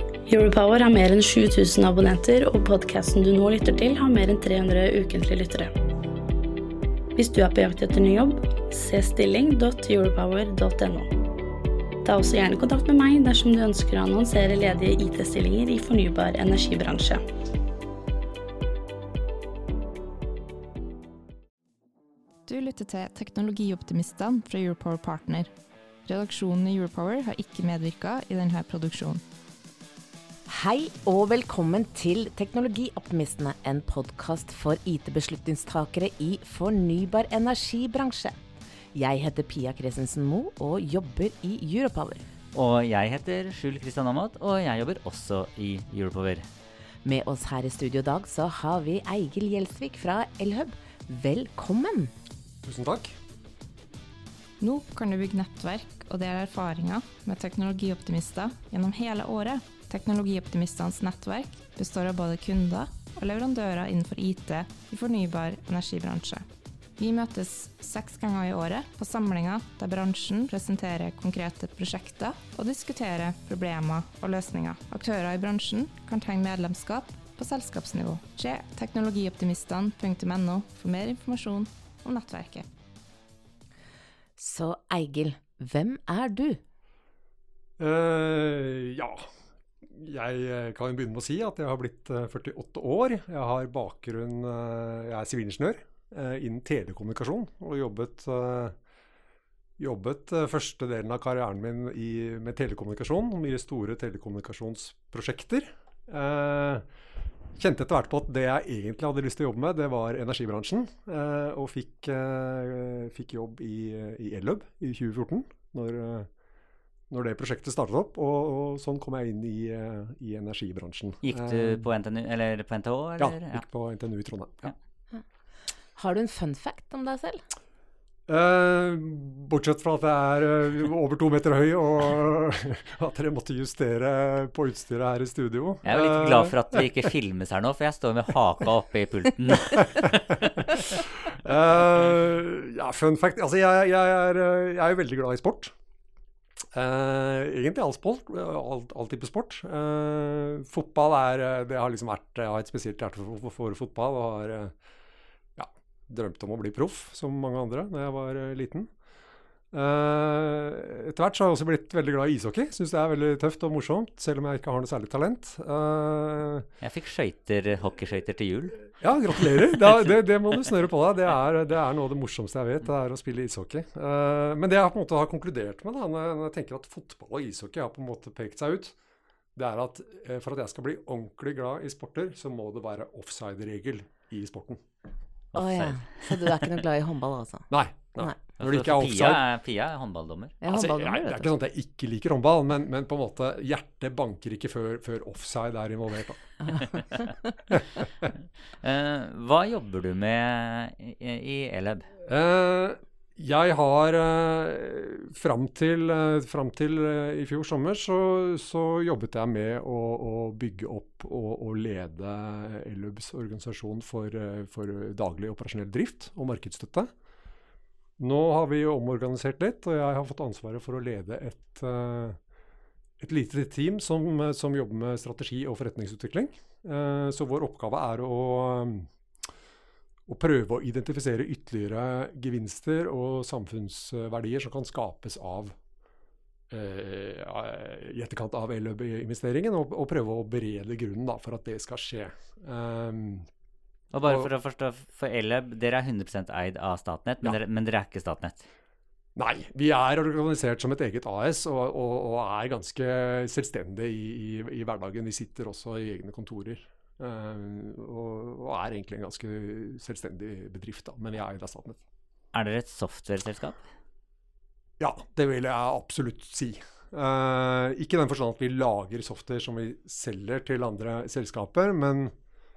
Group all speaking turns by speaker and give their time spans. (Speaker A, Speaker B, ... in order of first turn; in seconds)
Speaker A: 0.2-5.7, 7.1-11.1, 12.0-17.2
Speaker B: 22.4-25.5, 26.1-29.2, 54.6-66.4, 67.0-82.7
Speaker C: 30.5-38.4, 38.9-42.2, 47.0-52.1, 84.4-86.6, 125.9-127.4, 185.5-187.7, 190.6-191.5
Speaker D: 42.5-46.5, 121.2-123.6, 135.8-141.0, 166.8-168.9, 185.5-186.6, 188.6-190.6, 198.8-202.1, 244.1-248.7, 262.5-263.8
Speaker E: 52.6-53.1, 87.8-89.3, 89.8-98.8, 99.8-106.8, 107.5-116.3, 117.1-121.8, 123.2-124.7, 128.3-136.9, 139.8-145.7, 146.7-154.7, 155.6-158.9, 159.7-166.7, 169.0-178.9, 179.6-184.8, 187.7-189.4, 190.7-196.8, 197.7-198.3, 202.2-217.1, 218.2-222.4, 223.2-229.1, 230.3-235.8, 236.7-243.5, 244.2-244.5, 249.3-262.0, 265.0-272.3